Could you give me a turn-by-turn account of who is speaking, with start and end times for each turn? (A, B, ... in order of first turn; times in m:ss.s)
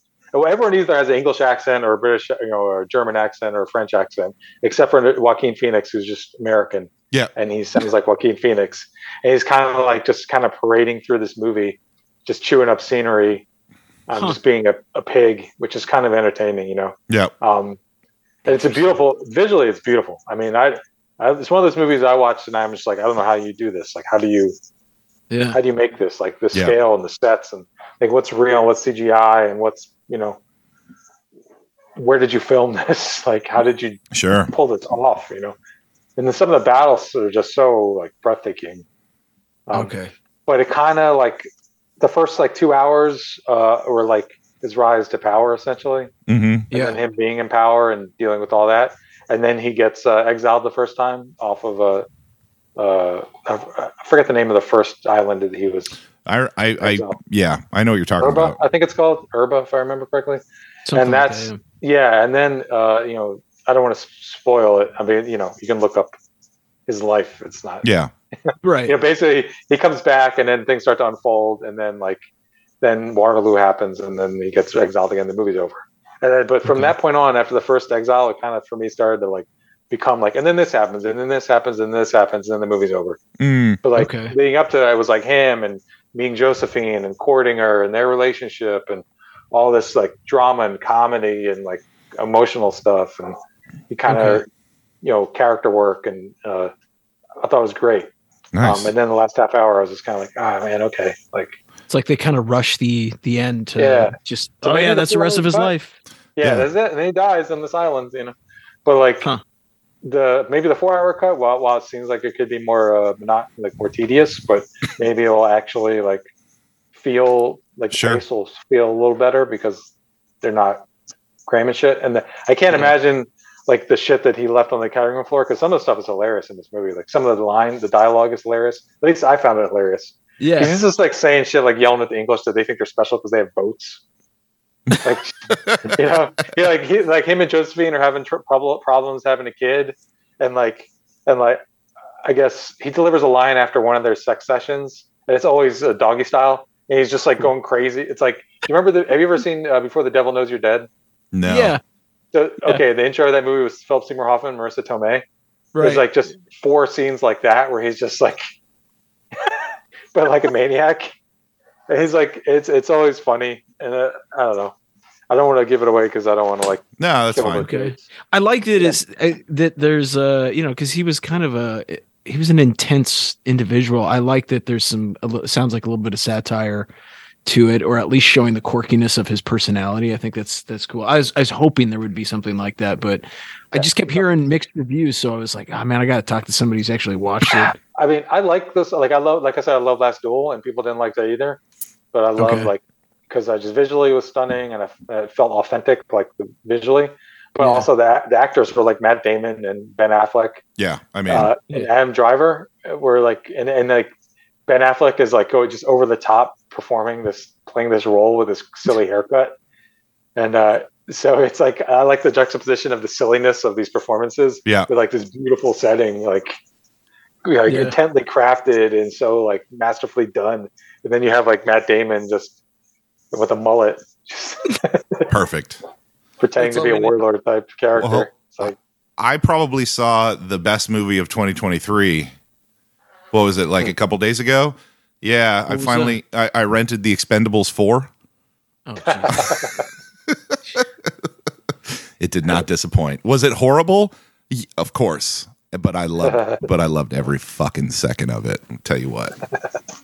0:00.3-0:13.4 A
0:14.1-0:17.8 A
0:18.5-0:19.0 B
0:18.5-0:24.6 A
0:25.3-0:25.6 B
0:25.5-0:30.4 A
0:32.0-0:35.6 A
0:34.1-0:34.5 C
0:36.2-0:38.8 A
0:39.7-0:40.0 A
0:39.7-0:40.1 B
0:40.5-0:41.5 A
0:42.0-0:46.1 A
0:46.3-0:46.7 C
0:46.7-0:47.0 B
0:46.7-0:52.1 A
0:52.8-0:56.0 A
0:56.2-0:58.6 C
0:56.8-0:57.2 A
0:58.2-1:00.4 A
1:00.9-1:01.6 B
1:00.9-1:06.1 A
1:06.9-1:07.9 A
1:07.8-1:08.1 C
1:08.5-1:12.2 A
1:08.6-1:08.9 B
1:12.8-1:23.2 A
1:16.7-1:16.9 B
1:23.4-1:23.8 C
1:23.8-1:33.4 A
1:24.0-1:24.3 B
1:33.9-1:34.5 A
1:34.1-1:34.4 B
1:35.0-1:36.7 A
1:37.4-1:38.1 A
1:38.5-1:38.9 C
1:38.6-1:41.6 A
1:41.9-1:46.0 B
1:43.8-1:45.7 A
1:46.4-1:48.3 A
1:46.4-1:46.7 C
1:48.8-1:49.3 A
1:50.0-1:56.3 A
1:57.0-1:59.9 A
1:57.9-1:58.2 C
2:00.4-2:00.8 A
2:01.5-2:14.0 A
2:10.4-2:10.8 B
2:15.0-2:21.6 A
2:22.2-2:30.9 A
2:31.3-2:31.8 C
2:31.5-2:31.8 B
2:32.3-2:35.2 A
2:35.8-2:36.1 B
2:35.8-2:38.4 A
2:39.4-2:41.1 A
2:41.9-2:44.7 A
2:45.3-2:48.0 A
2:47.0-2:47.7 C
2:47.6-2:56.9 B
2:57.5-3:07.8 B
3:03.7-3:04.3 A
3:07.6-3:11.6 A
3:12.1-3:20.6 A
3:12.4-3:12.7 B
3:17.6-3:17.9 B
3:20.8-3:21.5 C
3:21.3-3:24.1 A
3:24.7-3:29.6 A
3:30.4-3:36.6 A
3:37.4-3:42.6 A
3:37.7-3:38.0 B
3:43.3-3:45.3 A
3:45.3-3:45.8 C
3:46.4-3:48.8 A
3:46.6-3:47.2 B
3:48.0-3:52.3 C
3:53.3-3:58.1 C
3:55.7-3:56.2 B
3:58.9-3:59.6 B
3:59.3-3:59.6 A
4:02.2-4:09.4 C
4:06.2-4:06.6 A